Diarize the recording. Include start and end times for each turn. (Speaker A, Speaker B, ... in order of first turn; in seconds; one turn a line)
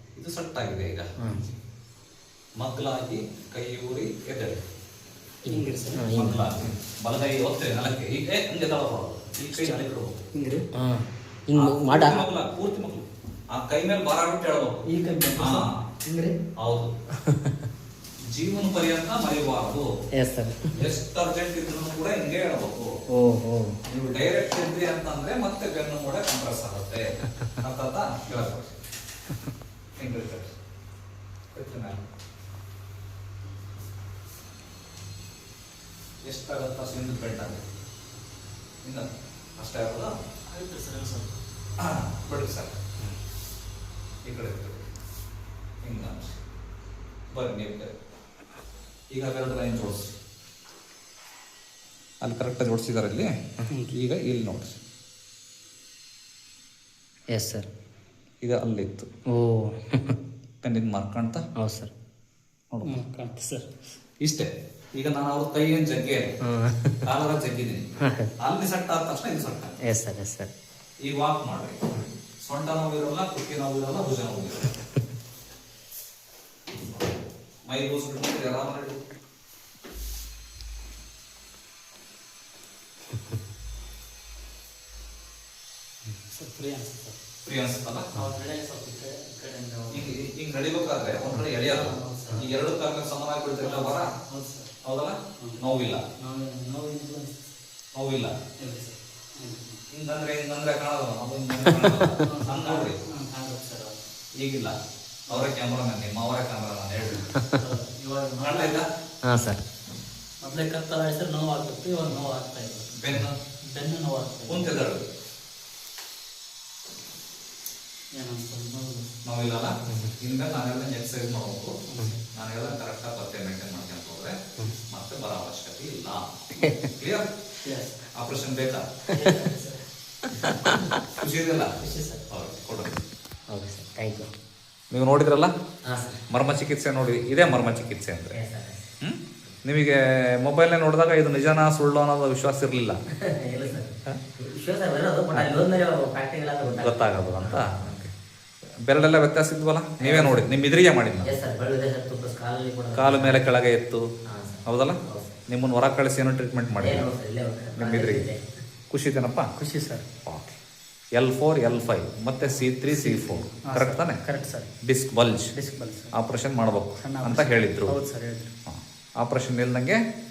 Speaker A: 0.1-1.1
Speaker B: 1.2-1.4
Speaker A: 2.6-4.6
Speaker B: 5.4-6.5
Speaker C: 5.5-6.1
Speaker A: 6.1-10.2
Speaker C: 10.3-10.7
Speaker B: 10.7-12.2
Speaker A: 11.5-15.9
Speaker C: 14.8-16.4
Speaker A: 16.6-16.9
Speaker B: 17.2-17.7
Speaker A: 18.3-19.9
Speaker B: 20.1-20.9
Speaker A: 20.7-22.9
Speaker B: 23.1-23.8
Speaker A: 23.9-28.8
Speaker A: 30.0-30.6
Speaker A: 31.5-32.0
Speaker A: 36.2-37.6
Speaker A: 38.8-40.1
Speaker C: 40.5-41.3
Speaker A: 41.8-42.8
Speaker A: 44.2-44.8
Speaker A: 45.8-46.4
Speaker A: 47.3-47.9
Speaker A: 49.1-50.1
Speaker A: 52.2-53.3
Speaker A: 53.9-54.8
Speaker B: 57.3-57.7
Speaker A: 58.4-59.1
Speaker B: 59.3-60.2
Speaker A: 60.6-61.4
Speaker B: 61.6-61.9
Speaker A: 62.7-63.0
Speaker C: 62.8-63.8
Speaker A: 64.2-66.3
Speaker B: 66.4-67.1
Speaker A: 67.0-67.8
Speaker B: 68.0-68.3
Speaker A: 68.4-69.8
Speaker B: 69.8-70.5
Speaker A: 71.0-71.8
Speaker A: 72.4-74.7
Speaker A: 77.7-79.0
Speaker C: 86.3-87.2
Speaker A: 87.4-88.1
Speaker C: 88.1-90.2
Speaker A: 89.9-94.1
Speaker C: 91.6-92.5
Speaker C: 93.6-94.7
Speaker A: 94.8-96.0
Speaker C: 96.2-97.4
Speaker A: 97.9-98.3
Speaker C: 98.6-99.8
Speaker A: 99.9-103.1
Speaker B: 101.5-102.2
Speaker C: 102.2-104.0
Speaker A: 104.4-104.7
Speaker C: 105.3-105.5
Speaker A: 105.3-107.3
Speaker B: 107.3-107.6
Speaker C: 107.5-108.8
Speaker A: 108.4-108.9
Speaker B: 109.2-109.6
Speaker C: 110.4-112.9
Speaker A: 112.9-113.4
Speaker C: 113.6-114.7
Speaker A: 114.5-115.1
Speaker C: 118.1-119.1
Speaker A: 119.2-121.8
Speaker B: 119.9-120.2
Speaker C: 121.9-122.2
Speaker A: 122.3-127.3
Speaker B: 126.6-126.9
Speaker C: 127.6-128.0
Speaker A: 128.1-129.1
Speaker B: 129.1-129.4
Speaker C: 129.1-129.8
Speaker B: 130.2-131.0
Speaker A: 130.5-131.8
Speaker C: 131.8-132.2
Speaker A: 132.3-133.0
Speaker B: 133.5-134.3
Speaker A: 134.9-135.5
Speaker B: 135.8-136.2
Speaker A: 136.3-138.4
Speaker B: 138.3-138.9
Speaker A: 139.0-143.0
Speaker B: 143.2-148.1
Speaker A: 146.7-148.1
Speaker A: 148.8-151.3
Speaker B: 150.0-150.5
Speaker B: 151.2-153.5
Speaker A: 152.9-154.1
Speaker B: 154.2-155.4
Speaker A: 154.7-157.1
Speaker B: 156.8-158.5
Speaker A: 157.8-158.3
Speaker A: 158.9-159.5
Speaker C: 159.6-160.1
Speaker A: 160.2-160.6
Speaker A: 161.2-164.2
Speaker C: 162.9-164.7
Speaker A: 164.8-165.5
Speaker C: 165.5-166.1
Speaker A: 166.1-168.0
Speaker C: 167.0-168.5
Speaker A: 168.7-170.0